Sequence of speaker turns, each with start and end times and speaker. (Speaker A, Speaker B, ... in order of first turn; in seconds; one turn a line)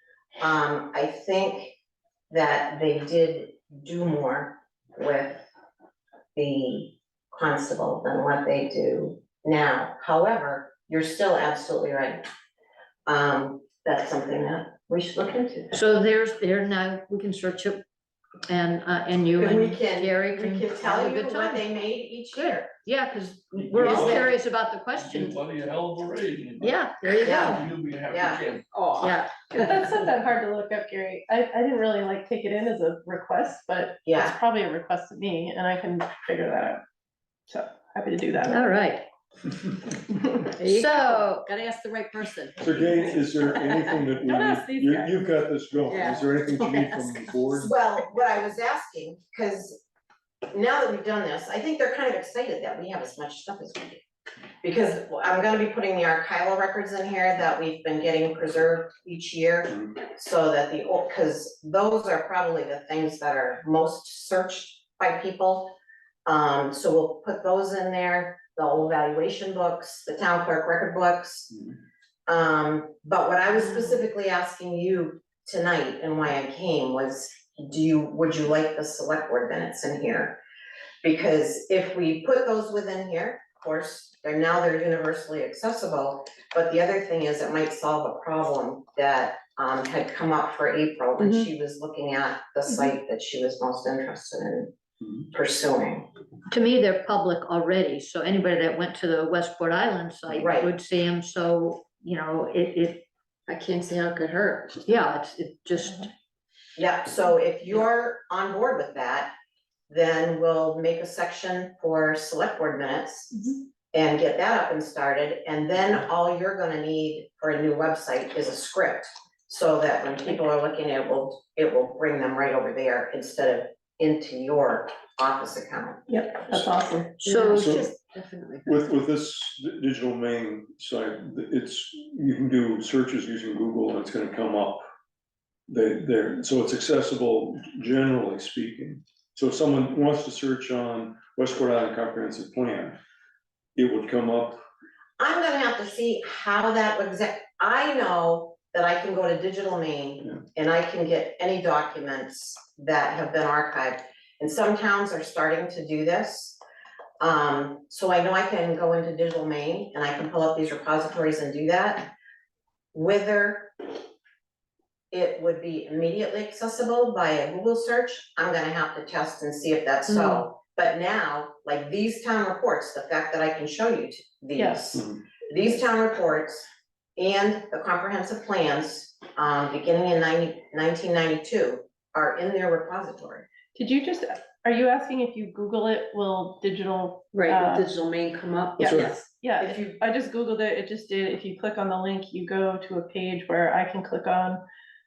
Speaker A: 0.4-1.7
Speaker A: 2.3-5.5
Speaker A: 6.3-12.2
Speaker A: 13.1-15.7
Speaker B: 15.7-17.8
Speaker B: 18.5-21.6
Speaker A: 19.4-22.7
Speaker B: 22.3-25.4
Speaker C: 23.5-24.4
Speaker A: 23.8-24.3
Speaker C: 24.9-28.6
Speaker B: 26.6-27.6
Speaker A: 27.2-28.5
Speaker D: 28.7-29.8
Speaker B: 29.0-29.6
Speaker E: 29.5-36.8
Speaker A: 34.0-34.4
Speaker E: 37.5-38.8
Speaker B: 38.5-39.0
Speaker D: 40.5-44.0
Speaker B: 40.6-41.5
Speaker F: 42.6-47.7
Speaker E: 44.2-45.4
Speaker D: 45.9-47.0
Speaker A: 47.5-49.8
Speaker A: 50.5-54.0
Speaker A: 54.6-65.7
Speaker F: 59.7-59.9
Speaker A: 66.2-71.5
Speaker A: 72.3-80.4
Speaker A: 81.0-94.7
Speaker D: 91.2-91.5
Speaker A: 95.3-96.1
Speaker B: 96.5-103.0
Speaker A: 100.4-100.7
Speaker D: 103.5-104.8
Speaker B: 104.8-106.1
Speaker A: 106.8-109.3
Speaker A: 109.9-126.7
Speaker E: 126.1-127.2
Speaker D: 127.2-128.8
Speaker B: 127.2-127.8
Speaker F: 127.5-127.9
Speaker F: 128.6-134.8
Speaker F: 135.7-143.0
Speaker F: 143.8-144.6
Speaker A: 145.2-156.6
Speaker A: 157.2-162.1
Speaker A: 162.9-163.7
Speaker A: 165.1-183.5
Speaker D: 170.1-170.4
Speaker E: 174.5-174.9
Speaker F: 174.9-175.2
Speaker E: 183.7-188.0
Speaker D: 187.3-189.3
Speaker E: 188.8-194.6
Speaker F: 188.8-189.1
Speaker A: 189.6-190.0